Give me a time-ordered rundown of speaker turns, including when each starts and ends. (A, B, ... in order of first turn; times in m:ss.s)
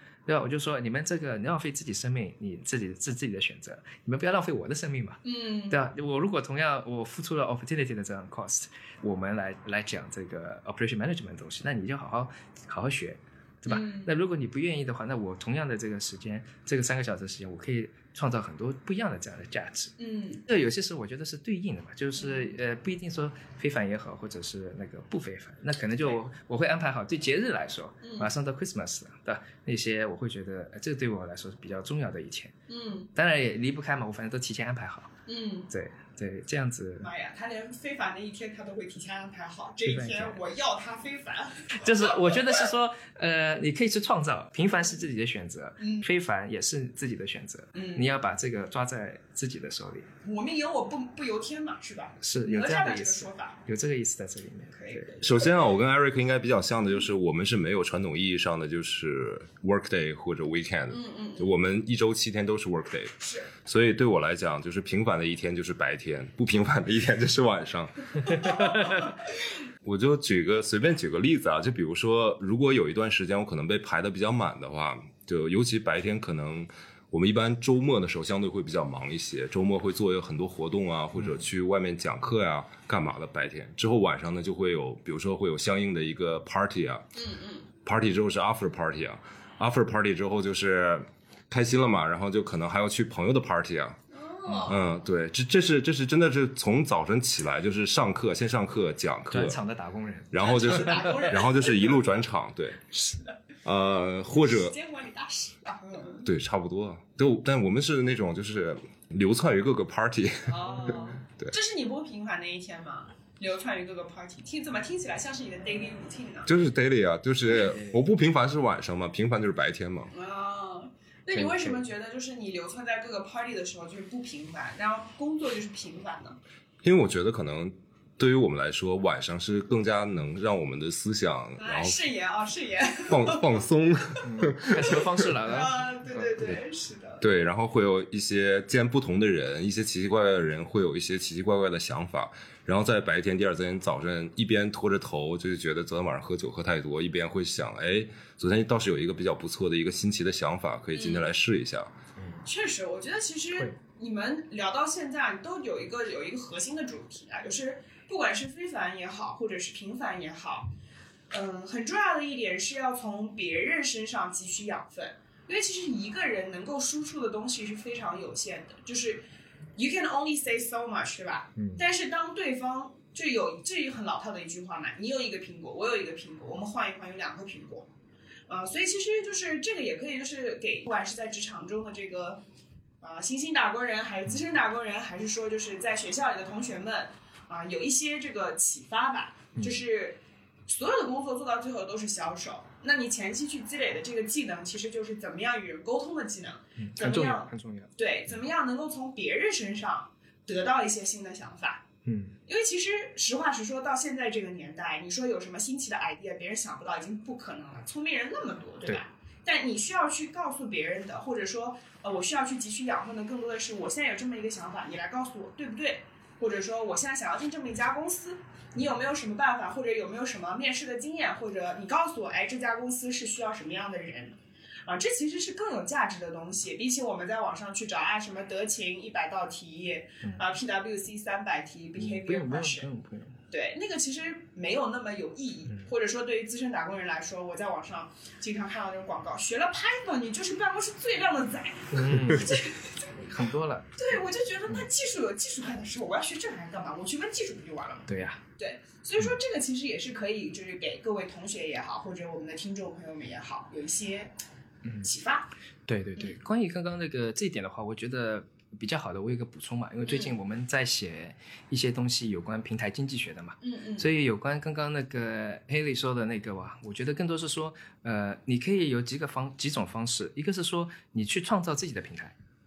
0:00.3-0:19.9 A
0:05.2-0:05.8 B
0:13.7-0:14.1 B
0:20.0-0:20.4 B
0:20.5-0:32.5 A
0:22.2-0:22.5 B
0:28.0-0:28.3 B
0:32.7-0:33.1 B
0:33.2-0:35.2 A
0:35.3-0:35.7 B
0:35.7-0:37.1 A
0:37.0-0:42.3 B
0:39.8-0:40.4 A
0:41.7-0:50.1 A
0:45.8-0:46.1 B
0:47.8-0:48.1 B
0:50.2-0:53.6 B
0:52.2-0:55.2 A
0:54.7-0:55.5 B
0:55.2-1:09.1 C
1:00.9-1:01.5 B
1:03.2-1:03.5 B
1:08.2-1:09.2 B
1:09.8-1:27.1 C
1:27.2-1:27.7 B
1:27.8-1:34.0 C
1:34.1-1:35.0 B
1:34.5-1:34.7 A
1:34.7-1:39.6 C
1:39.3-1:41.2 A
1:40.3-1:42.9 C
1:40.4-1:42.0 B
1:42.9-1:43.4 B
1:43.6-1:44.8 C
1:44.4-1:46.2 B
1:46.2-1:51.5 C
1:50.5-1:56.5 B
1:56.5-2:00.1 C
2:00.1-2:06.4 B
2:01.4-2:01.8 A
2:06.8-2:12.0 C
2:11.6-2:13.6 B
2:13.1-2:15.1 C
2:14.2-2:16.3 A
2:15.4-2:17.2 B
2:17.2-2:31.9 C
2:31.0-2:31.3 B
2:32.2-2:32.4 A
2:32.4-2:40.7 B
2:41.3-2:49.2 B
2:49.8-2:57.9 B
2:51.6-2:51.8 A
2:58.5-3:02.4 B
3:03.0-3:21.9 B
3:09.6-3:09.8 A
3:16.8-3:18.3 A
3:22.0-3:22.4 A
3:22.5-3:52.9 B
3:52.0-3:53.4 A
3:53.5-4:03.0 B
4:01.9-4:04.9 A
4:04.0-4:14.3 B
4:08.1-4:08.4 A
4:14.8-4:15.1 A
4:15.0-4:15.5 B
4:15.9-4:32.4 A
4:20.0-4:20.3 B
4:23.6-4:24.1 B